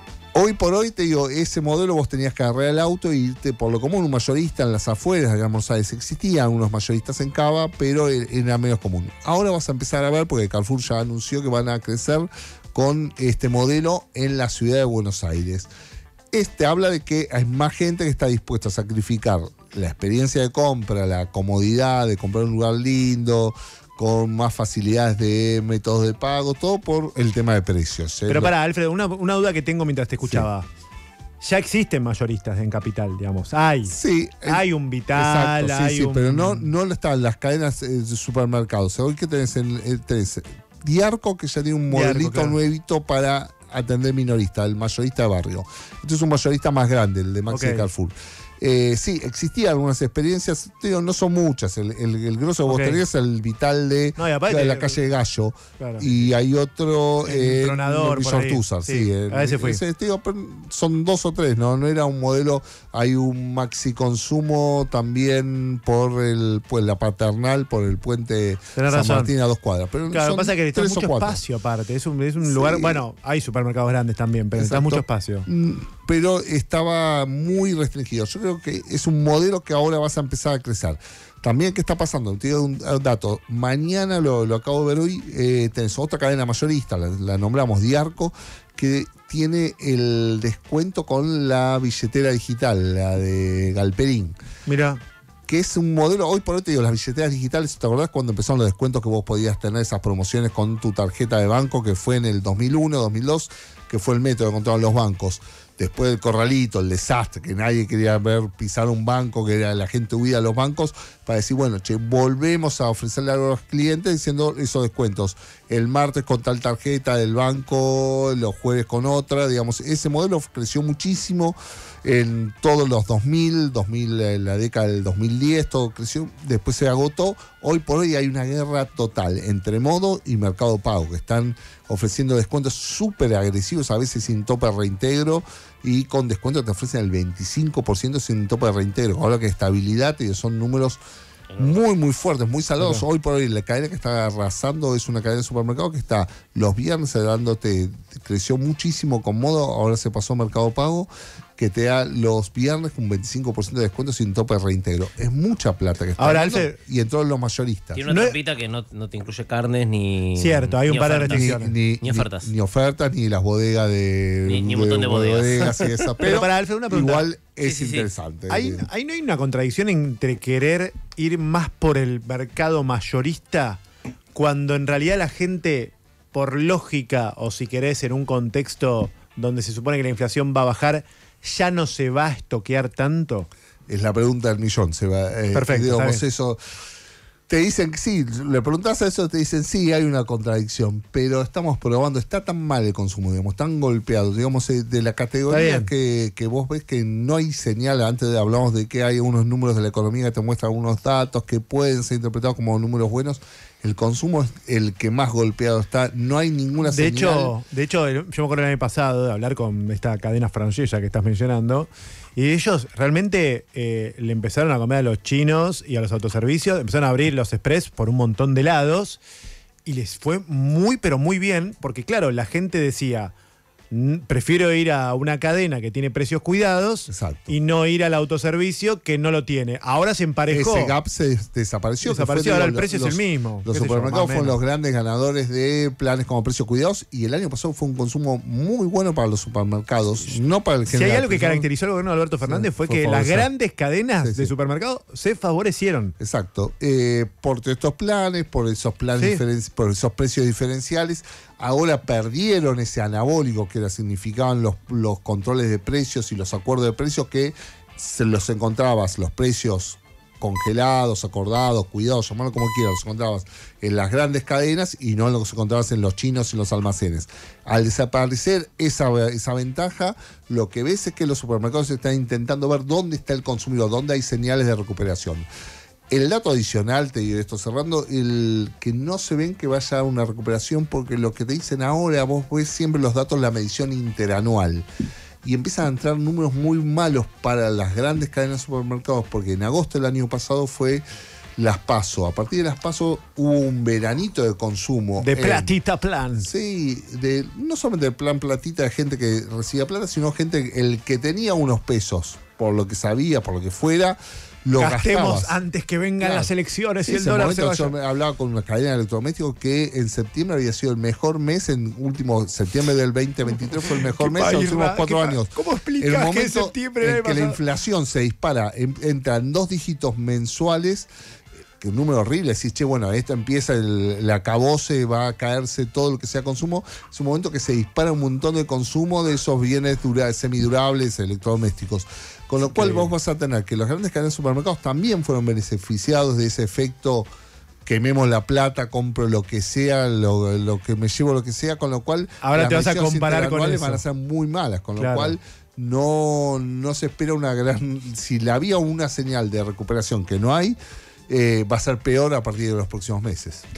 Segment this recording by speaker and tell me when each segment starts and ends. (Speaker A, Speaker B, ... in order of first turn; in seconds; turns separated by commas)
Speaker A: 0.3-15.7, Speaker A: 16.3-28.5, Speaker B: 28.3-30.7, Speaker B: 31.4-36.7, Speaker A: 33.9-34.6, Speaker A: 35.1-71.4, Speaker B: 41.9-42.6, Speaker B: 47.5-47.9, Speaker B: 52.6-53.0, Speaker B: 54.2-55.0, Speaker B: 55.8-56.3, Speaker B: 57.2-59.8, Speaker B: 68.8-69.3, Speaker B: 70.1-75.5, Speaker A: 72.4-73.0, Speaker A: 74.5-94.3, Speaker B: 94.7-95.0, Speaker A: 95.5-141.0, Speaker C: 141.5-141.8, Speaker A: 141.6-158.0, Speaker B: 142.8-143.0, Speaker B: 156.2-156.8, Speaker C: 157.9-161.5, Speaker B: 158.1-158.4, Speaker B: 160.3-161.7, Speaker A: 161.2-168.9, Speaker C: 162.0-162.5, Speaker C: 164.5-166.1, Speaker B: 166.2-167.2, Speaker C: 167.6-168.1, Speaker B: 168.5-173.8, Speaker B: 174.3-183.5, Speaker A: 183.9-186.6, Speaker B: 185.5-186.2, Speaker A: 187.5-207.5, Speaker B: 195.5-195.9, Speaker B: 206.8-219.2, Speaker B: 219.8-223.3, Speaker B: 223.9-230.9, Speaker A: 227.1-227.5, Speaker A: 230.5-241.7, Speaker B: 232.0-234.6, Speaker B: 240.9-246.1, Speaker A: 242.4-243.5, Speaker A: 244.2-244.5, Speaker A: 246.2-275.4, Speaker B: 249.2-249.4, Speaker A: 276.1-284.8, Speaker A: 285.4-291.0, Speaker A: 291.6-295.8, Speaker B: 295.2-296.5, Speaker A: 296.4-305.6, Speaker B: 304.8-307.9, Speaker A: 306.2-306.5, Speaker A: 307.0-321.1, Speaker B: 314.1-317.6, Speaker A: 321.8-337.3, Speaker B: 332.7-333.1, Speaker A: 337.8-350.8, Speaker B: 342.4-344.0, Speaker B: 345.0-345.3, Speaker A: 351.3-353.6